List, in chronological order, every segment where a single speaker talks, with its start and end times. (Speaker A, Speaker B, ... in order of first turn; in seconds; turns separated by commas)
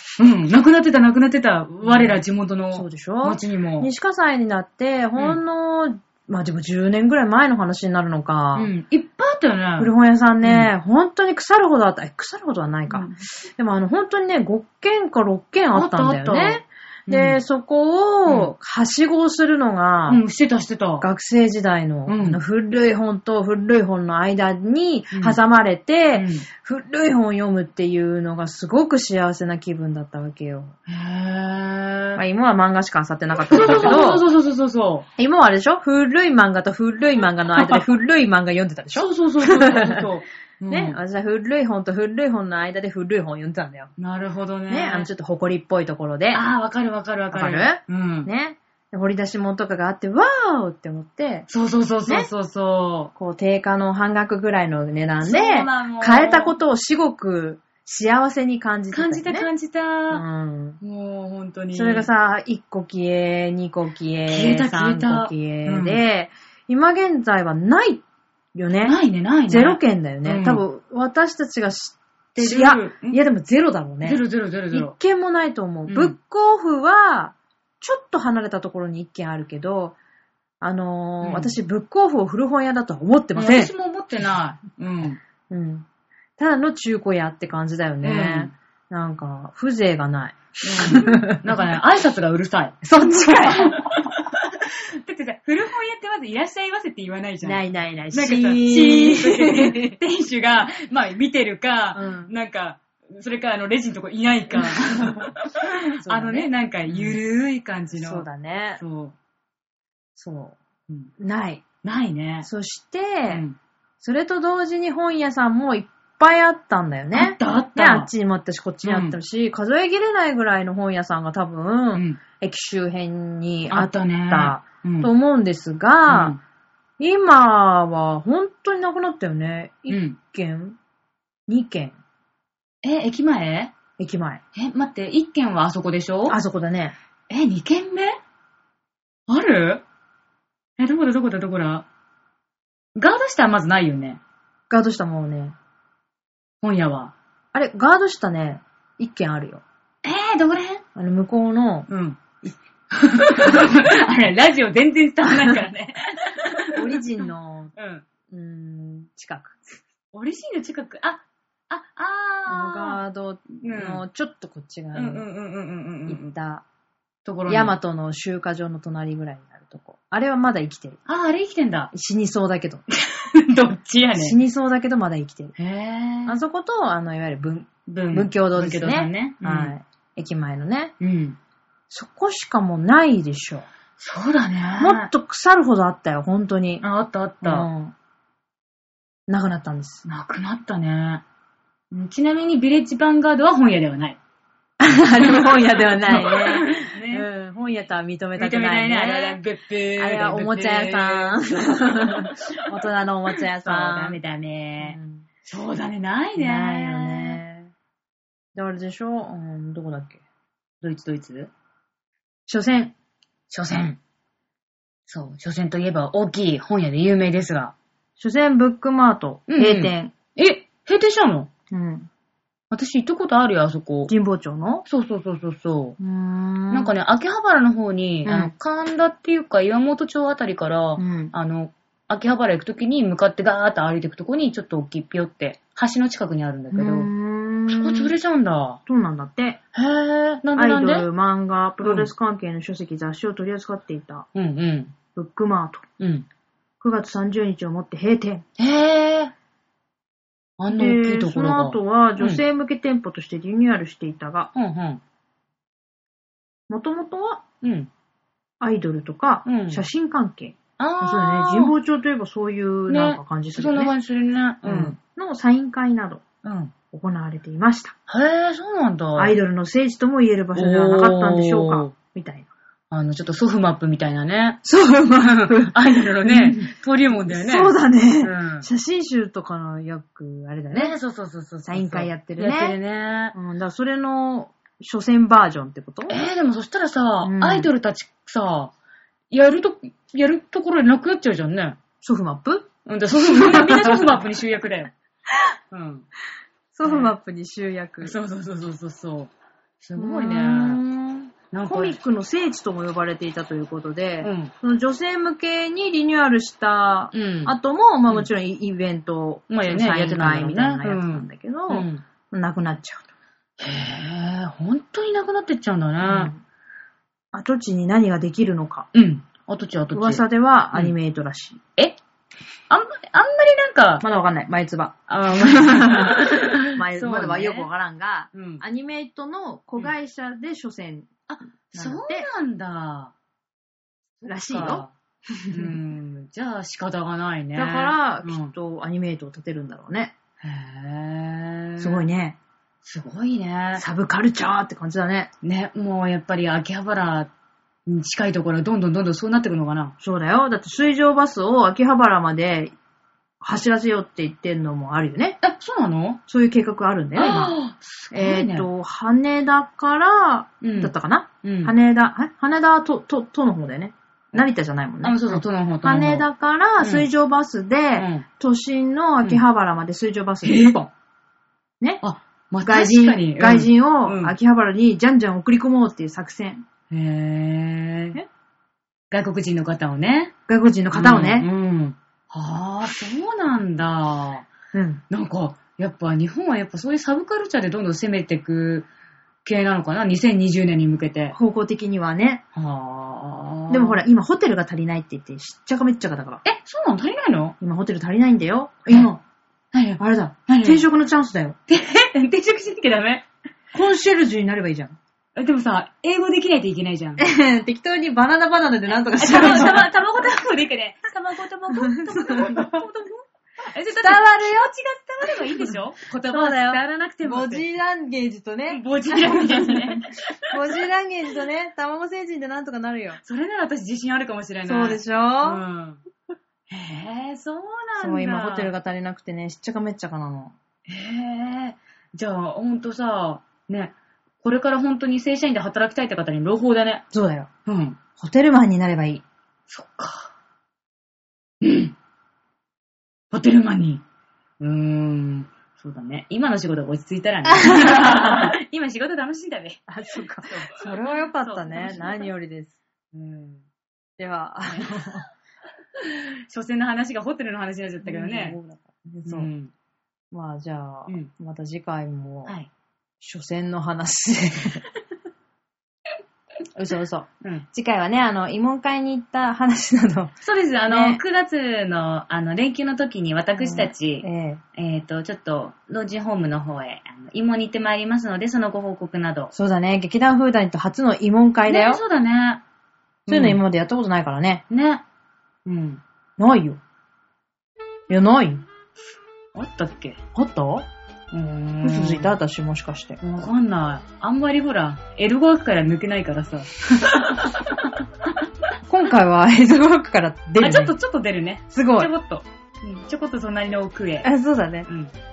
Speaker A: 0.2-3.9, Speaker B: 1.8-2.2, Speaker B: 2.7-8.7, Speaker A: 8.5-10.7, Speaker B: 9.8-20.2, Speaker A: 12.9-13.2, Speaker A: 15.7-17.4, Speaker A: 20.1-21.1, Speaker B: 21.0-30.7, Speaker A: 22.1-22.4, Speaker A: 25.1-25.4, Speaker A: 26.1-26.5, Speaker A: 30.9-32.2, Speaker B: 32.2-34.2, Speaker A: 33.5-35.0, Speaker B: 35.2-40.1, Speaker A: 38.9-41.0, Speaker B: 40.7-43.9, Speaker A: 44.0-45.1, Speaker B: 44.7-46.4, Speaker A: 46.3-48.3, Speaker B: 47.3-51.5, Speaker A: 51.5-53.1, Speaker B: 53.1-59.5, Speaker A: 55.2-56.5, Speaker A: 58.9-60.2, Speaker B: 60.1-60.8, Speaker A: 60.8-62.1, Speaker B: 61.7-68.0, Speaker A: 64.3-66.0, Speaker B: 68.5-68.9, Speaker A: 68.8-70.6, Speaker B: 69.5-80.0, Speaker A: 72.3-73.2, Speaker A: 74.0-75.0, Speaker A: 75.9-76.2, Speaker B: 80.6-83.7, Speaker A: 81.2-81.5, Speaker A: 83.3-85.2, Speaker B: 85.5-85.8, Speaker B: 86.4-91.4, Speaker A: 88.0-88.5, Speaker A: 90.6-108.3, Speaker B: 92.8-93.8, Speaker B: 97.4-100.0, Speaker B: 101.9-102.3, Speaker B: 104.6-105.3, Speaker B: 106.0-107.2, Speaker B: 108.0-108.8, Speaker A: 108.8-109.2, Speaker B: 110.2-110.6, Speaker B: 111.2-111.6, Speaker A: 111.8-112.5, Speaker B: 112.4-113.4, Speaker A: 113.2-113.6, Speaker B: 114.0-126.3, Speaker A: 117.1-118.1, Speaker A: 118.8-119.2, Speaker A: 123.7-125.1, Speaker A: 126.1-126.4, Speaker B: 127.0-130.8, Speaker A: 129.9-130.2, Speaker B: 131.5-131.9, Speaker A: 132.8-133.7, Speaker B: 134.0-134.4, Speaker A: 134.5-136.4, Speaker B: 136.3-136.9, Speaker A: 137.3-138.2, Speaker A: 139.3-139.8, Speaker A: 140.8-141.8, Speaker A: 142.9-144.2, Speaker B: 144.7-145.5, Speaker A: 146.6-147.1, Speaker B: 147.5-149.6, Speaker A: 150.0-150.8, Speaker B: 150.9-151.9, Speaker A: 151.9-158.1, Speaker B: 155.2-155.6, Speaker B: 156.7-157.7, Speaker B: 158.3-159.6, Speaker A: 160.1-163.0, Speaker B: 162.5-165.3, Speaker A: 163.6-164.0, Speaker A: 164.9-166.3, Speaker B: 166.1-166.6, Speaker A: 167.2-167.7, Speaker B: 167.5-171.0, Speaker A: 171.1-171.9, Speaker B: 171.9-172.8, Speaker A: 173.1-174.3, Speaker B: 174.2-175.5, Speaker A: 175.6-176.4, Speaker B: 176.3-180.9, Speaker A: 177.9-179.8, Speaker A: 181.0-181.4, Speaker B: 181.9-183.7, Speaker A: 184.0-185.1, Speaker B: 184.8-186.8, Speaker A: 186.8-187.7, Speaker B: 187.4-187.9, Speaker B: 189.3-190.0, Speaker A: 190.0-191.2, Speaker A: 191.9-194.2, Speaker B: 194.8-199.4, Speaker A: 196.1-197.3, Speaker A: 198.4-201.4, Speaker B: 200.0-204.2, Speaker A: 203.6-207.4, Speaker B: 204.8-205.2, Speaker B: 206.4-207.7, Speaker B: 208.5-210.2, Speaker A: 210.8-211.5, Speaker B: 212.5-212.9, Speaker A: 213.5-214.0, Speaker A: 215.1-217.7, Speaker B: 218.2-220.1, Speaker A: 219.5-221.5, Speaker B: 221.7-222.1, Speaker A: 222.7-224.1, Speaker B: 224.1-224.8, Speaker A: 224.8-226.0, Speaker B: 226.0-226.9, Speaker A: 226.7-237.1, Speaker B: 228.2-228.5, Speaker B: 231.0-231.3, Speaker B: 236.7-238.1, Speaker A: 237.7-238.8, Speaker B: 238.9-239.6, Speaker A: 239.7-241.1, Speaker B: 240.6-244.2, Speaker A: 241.8-242.1, Speaker A: 244.3-244.9, Speaker B: 245.1-245.8, Speaker A: 246.0-246.2, Speaker B: 246.8-248.4, Speaker A: 248.6-249.3, Speaker A: 250.6-252.4, Speaker B: 250.7-254.5, Speaker A: 254.5-255.0, Speaker B: 256.7-257.4, Speaker A: 257.6-257.9, Speaker B: 258.6-263.9, Speaker A: 259.4-259.9, Speaker A: 260.8-261.7, Speaker A: 262.9-264.9, Speaker B: 264.6-266.2, Speaker A: 266.4-266.7, Speaker B: 266.9-267.9, Speaker A: 268.1-269.3, Speaker B: 269.2-272.5, Speaker A: 270.5-271.9, Speaker A: 272.9-274.6, Speaker B: 274.6-276.6, Speaker A: 275.2-278.7, Speaker B: 277.3-280.9, Speaker A: 280.7-283.3, Speaker B: 281.6-282.8, Speaker B: 283.3-286.2, Speaker A: 286.1-288.7, Speaker B: 287.2-287.7, Speaker A: 289.3-291.8, Speaker B: 292.0-292.7, Speaker A: 292.9-294.9, Speaker B: 293.2-294.0, Speaker A: 295.7-296.1, Speaker B: 296.7-298.1, Speaker A: 296.8-297.1, Speaker A: 298.0-300.8, Speaker B: 299.9-313.1, Speaker A: 301.5-302.0, Speaker A: 304.2-304.5, Speaker A: 307.1-307.5, Speaker A: 309.5-312.0, Speaker A: 313.6-316.3, Speaker B: 316.0-316.4, Speaker B: 317.3-318.9, Speaker A: 318.9-320.9, Speaker B: 319.9-321.6, Speaker A: 322.7-324.0, Speaker B: 324.0-331.1, Speaker A: 325.1-327.7, Speaker A: 328.3-328.6, Speaker A: 331.3-333.1, Speaker B: 331.7-332.3, Speaker A: 334.2-334.9, Speaker B: 334.2-335.8, Speaker A: 335.5-338.5, Speaker B: 337.5-340.1, Speaker A: 340.4-342.0, Speaker B: 341.8-342.4, Speaker A: 342.8-343.8, Speaker B: 343.7-345.3, Speaker A: 345.4-347.3, Speaker A: 347.9-349.9, Speaker B: 350.0-352.7, Speaker B: 353.4-355.4, Speaker A: 355.4-356.2, Speaker B: 356.3-357.6, Speaker A: 357.1-358.7, Speaker B: 358.1-370.9, Speaker A: 360.6-361.7, Speaker A: 365.0-366.3, Speaker A: 366.8-367.1, Speaker A: 368.0-368.2, Speaker A: 370.4-370.8, Speaker A: 372.0-374.4, Speaker B: 372.6-376.6, Speaker A: 376.9-378.2, Speaker A: 379.1-380.3, Speaker B: 380.5-381.5, Speaker A: 380.9-384.5, Speaker B: 384.7-385.0, Speaker A: 385.1-388.9, Speaker A: 389.4-391.4, Speaker B: 391.3-392.4, Speaker A: 392.5-394.0, Speaker B: 393.7-396.4, Speaker A: 396.4-397.6, Speaker B: 397.6-399.2, Speaker A: 399.7-400.9, Speaker B: 400.0-401.6, Speaker A: 401.7-403.2, Speaker B: 403.7-405.0, Speaker A: 405.4-407.2, Speaker B: 407.2-409.9, Speaker A: 409.1-417.6, Speaker B: 411.8-412.8, Speaker B: 413.9-414.7, Speaker B: 415.4-423.2, Speaker A: 418.7-420.5, Speaker A: 423.2-426.0, Speaker B: 424.6-425.6, Speaker A: 426.7-428.7, Speaker B: 428.0-430.5, Speaker A: 430.9-437.0, Speaker B: 437.1-437.5, Speaker A: 437.6-438.0, Speaker B: 438.2-439.2, Speaker A: 439.7-440.3, Speaker A: 441.6-441.9, Speaker A: 443.3-444.0, Speaker A: 444.6-449.8, Speaker B: 447.5-448.4, Speaker B: 449.9-452.8, Speaker A: 450.4-452.3, Speaker A: 453.1-453.6, Speaker B: 454.2-455.2, Speaker A: 454.7-455.2, Speaker A: 456.0-458.6, Speaker B: 458.0-459.5, Speaker A: 459.2-459.7, Speaker B: 460.3-462.5, Speaker A: 462.4-462.7, Speaker B: 463.2-464.8, Speaker B: 466.7-470.3, Speaker A: 470.4-479.5, Speaker B: 470.9-471.2, Speaker B: 473.6-474.6, Speaker B: 479.5-482.0, Speaker A: 481.6-482.6, Speaker A: 483.3-483.6, Speaker B: 483.3-484.6, Speaker A: 484.7-485.0, Speaker A: 485.6-486.0, Speaker B: 486.4-486.8, Speaker B: 488.1-488.6, Speaker A: 489.5-490.2, Speaker B: 490.3-490.9, Speaker A: 491.3-492.3, Speaker B: 491.8-493.2, Speaker A: 493.2-497.9, Speaker B: 498.9-500.9, Speaker A: 500.6-504.3, Speaker B: 501.7-502.1, Speaker B: 504.2-504.9, Speaker A: 504.9-505.1